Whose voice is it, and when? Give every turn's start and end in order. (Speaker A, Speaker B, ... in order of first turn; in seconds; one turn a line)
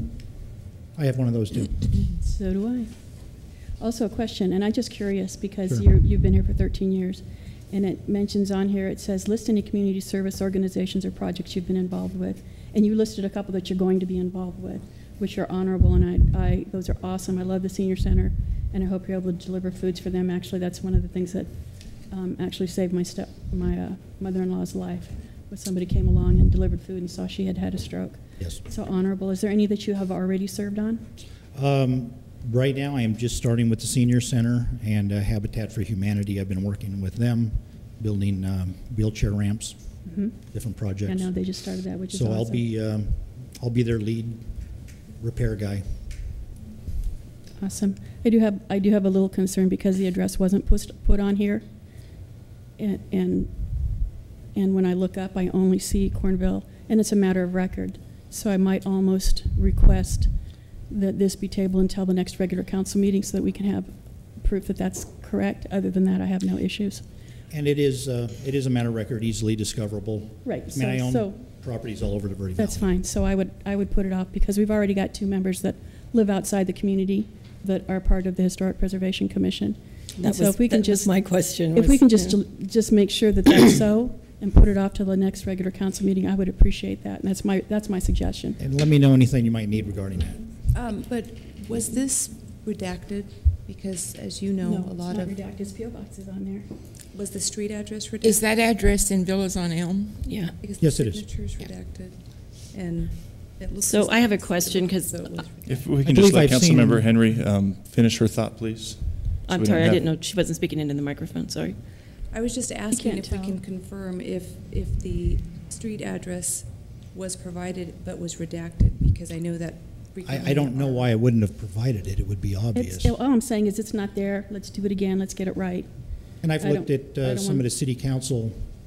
Speaker A: 1.0-2.0
Speaker B: 2.2-2.9
Speaker B: 3.8-21.5
Speaker B: 22.1-31.1
Speaker A: 31.5-39.8
Speaker B: 40.0-40.4
Speaker A: 40.3-41.5
Speaker B: 41.0-42.6
Speaker A: 42.1-44.5
Speaker A: 45.2-46.0
Speaker B: 47.6-51.6
Speaker B: 52.8-54.0
Speaker B: 54.5-60.3
Speaker B: 60.9-67.0
Speaker A: 67.5-72.9
Speaker B: 70.4-71.4
Speaker B: 72.6-88.6
Speaker C: 80.2-82.4
Speaker A: 88.6-90.4
Speaker D: 90.7-95.4
Speaker B: 94.6-96.7
Speaker D: 97.1-98.5
Speaker E: 98.2-100.3
Speaker C: 100.3-100.5
Speaker D: 100.6-105.9
Speaker A: 100.8-101.3
Speaker C: 103.8-105.1
Speaker F: 105.7-110.0
Speaker A: 106.0-107.1
Speaker C: 109.5-111.8
Speaker D: 112.3-121.1
Speaker B: 112.9-113.6
Speaker A: 120.2-123.2
Speaker B: 122.7-125.9
Speaker A: 126.4-128.7
Speaker B: 126.5-127.7